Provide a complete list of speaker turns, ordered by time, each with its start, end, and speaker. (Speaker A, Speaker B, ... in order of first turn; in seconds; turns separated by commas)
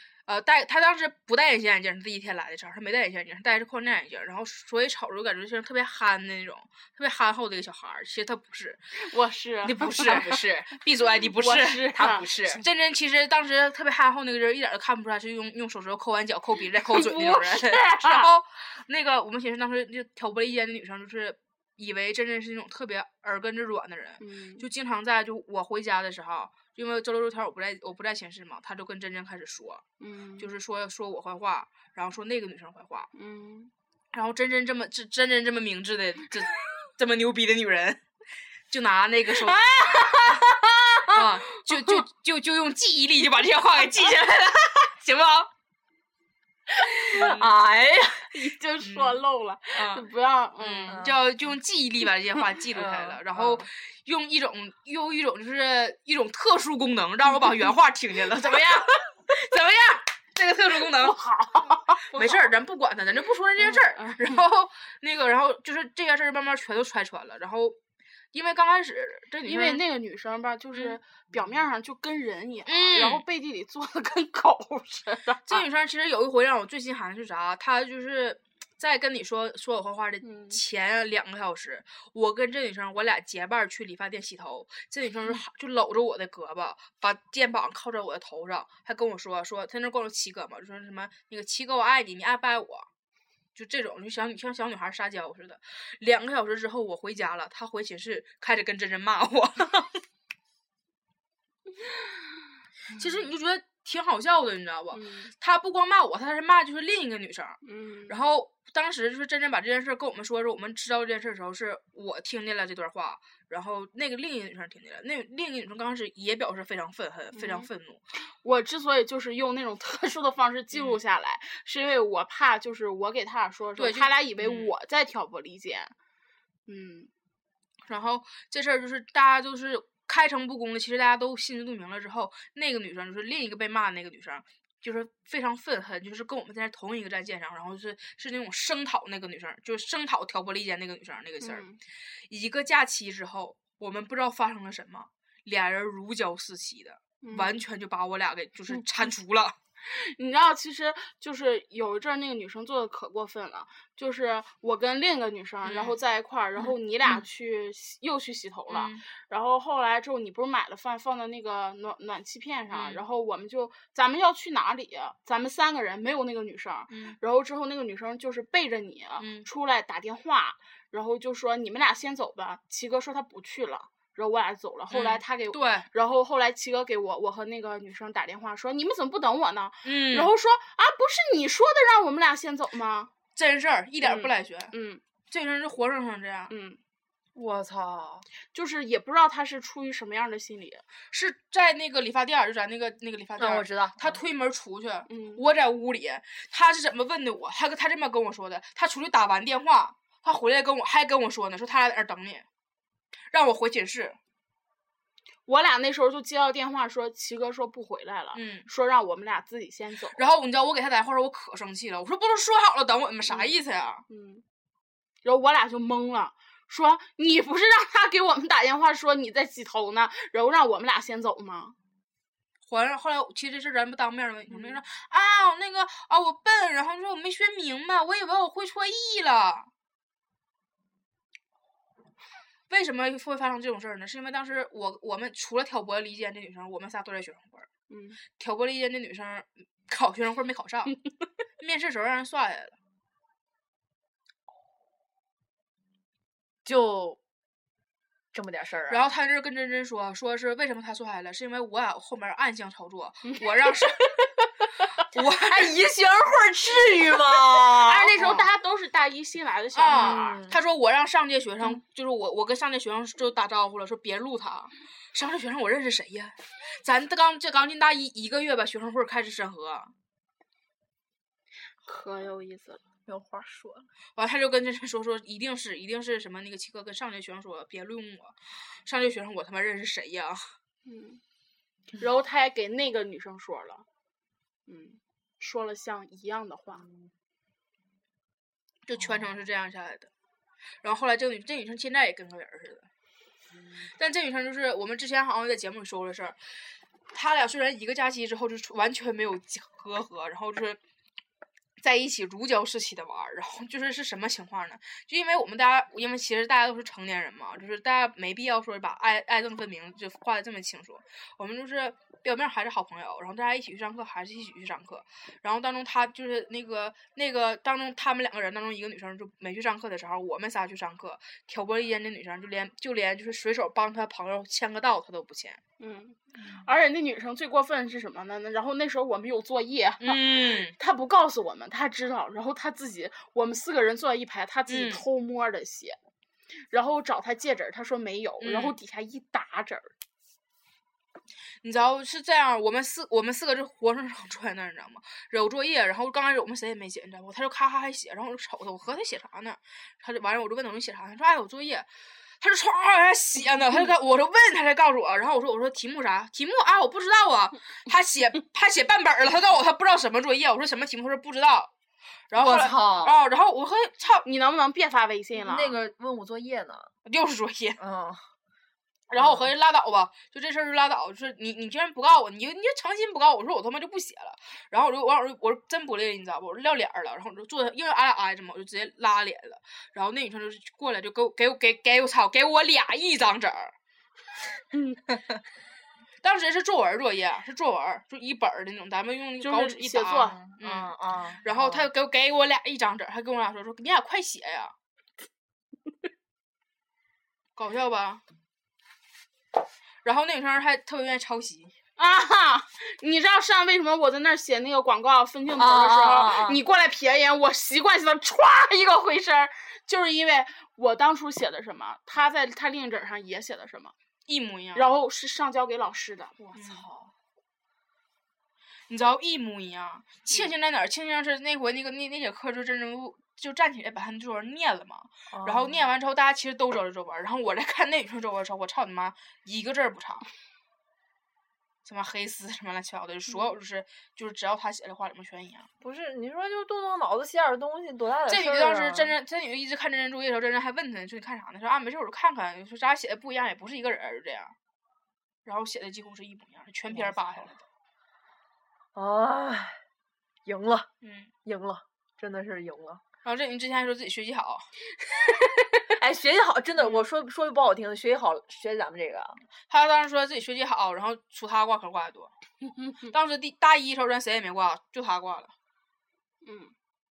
Speaker A: 0.3-8.8, Speaker B: 9.0-10.3, Speaker A: 9.6-29.8, Speaker C: 10.1-10.5, Speaker B: 11.4-12.3, Speaker C: 12.0-12.6, Speaker B: 16.9-18.3, Speaker B: 24.2-24.6, Speaker B: 30.0-30.4, Speaker A: 30.4-33.1, Speaker B: 33.1-33.7, Speaker A: 34.1-38.0, Speaker A: 38.7-40.4, Speaker B: 39.4-41.2, Speaker A: 41.1-45.5, Speaker B: 46.9-47.4, Speaker A: 47.1-48.1, Speaker C: 47.2-48.1, Speaker B: 48.3-51.0, Speaker A: 48.8-50.1, Speaker A: 50.6-61.2, Speaker C: 50.9-51.2, Speaker C: 52.7-53.7, Speaker B: 61.0-62.5, Speaker A: 62.0-67.8, Speaker B: 63.6-64.4, Speaker A: 68.3-69.8, Speaker B: 69.4-75.6, Speaker A: 72.7-73.2, Speaker A: 75.5-92.9, Speaker B: 80.2-80.6, Speaker A: 93.5-100.0, Speaker A: 103.0-118.0, Speaker B: 104.9-105.3, Speaker B: 107.7-108.2, Speaker B: 117.3-117.7, Speaker B: 118.4-126.0, Speaker A: 120.7-121.0, Speaker A: 123.8-124.7, Speaker B: 126.7-127.1, Speaker A: 127.9-141.7, Speaker B: 141.4-141.8, Speaker A: 142.3-149.6, Speaker B: 147.2-147.5, Speaker B: 149.9-183.1, Speaker A: 155.6-156.0, Speaker A: 158.7-159.0, Speaker A: 162.7-163.0, Speaker A: 166.9-167.2, Speaker A: 169.2-169.5, Speaker A: 174.9-175.9, Speaker A: 179.8-180.3, Speaker A: 183.3-184.7, Speaker B: 184.0-185.0, Speaker A: 185.3-186.5, Speaker B: 186.5-186.8, Speaker C: 187.3-188.3, Speaker B: 188.5-190.8, Speaker A: 191.1-202.5, Speaker C: 193.4-194.2, Speaker B: 195.1-195.4, Speaker A: 203.3-204.2, Speaker B: 205.5-210.2, Speaker A: 208.3-208.7, Speaker A: 210.1-214.0, Speaker B: 214.1-214.4, Speaker B: 215.2-221.8, Speaker A: 222.7-229.7, Speaker B: 224.5-224.8, Speaker A: 232.7-237.7, Speaker B: 237.9-238.2, Speaker A: 238.4-240.9, Speaker A: 241.6-242.8, Speaker C: 246.7-247.2, Speaker C: 248.3-249.1, Speaker A: 248.9-254.3, Speaker B: 253.3-253.7, Speaker A: 255.1-255.8, Speaker C: 255.3-258.4, Speaker B: 257.8-260.4, Speaker A: 258.2-258.4, Speaker A: 259.8-269.9, Speaker C: 259.9-260.6, Speaker B: 271.9-272.8, Speaker C: 273.1-273.9, Speaker A: 274.2-280.5, Speaker B: 280.9-281.2, Speaker B: 282.0-283.9, Speaker B: 284.7-286.9, Speaker A: 288.9-290.1, Speaker A: 290.8-292.9, Speaker A: 293.9-296.4, Speaker A: 297.1-300.8, Speaker A: 301.8-325.6, Speaker B: 325.8-336.0, Speaker A: 330.0-330.8, Speaker A: 334.7-335.0, Speaker B: 336.7-339.9, Speaker A: 338.4-338.8, Speaker A: 341.6-351.9, Speaker A: 352.4-361.7, Speaker A: 362.3-364.3, Speaker C: 362.4-363.2, Speaker B: 364.2-365.8, Speaker C: 365.4-366.9, Speaker A: 367.1-367.8, Speaker C: 367.8-368.2, Speaker A: 369.1-383.7, Speaker C: 369.1-369.5, Speaker A: 386.2-394.7, Speaker B: 389.4-390.4, Speaker C: 390.1-391.9, Speaker A: 397.6-398.2, Speaker A: 400.0-401.8, Speaker B: 402.0-413.9, Speaker C: 405.6-406.6, Speaker A: 414.3-414.9, Speaker B: 414.7-416.4, Speaker C: 416.4-417.1, Speaker A: 416.6-416.8, Speaker A: 418.9-430.3, Speaker C: 425.3-425.9, Speaker A: 431.9-435.7, Speaker C: 435.8-439.1, Speaker A: 438.3-444.6, Speaker A: 445.4-447.6, Speaker C: 446.9-447.5, Speaker C: 448.9-449.8, Speaker C: 450.5-450.9, Speaker A: 451.0-451.3, Speaker C: 451.4-453.0, Speaker A: 453.2-454.7, Speaker C: 455.9-459.4, Speaker A: 459.7-462.3, Speaker B: 462.6-463.1, Speaker A: 463.1-465.5, Speaker B: 466.4-466.7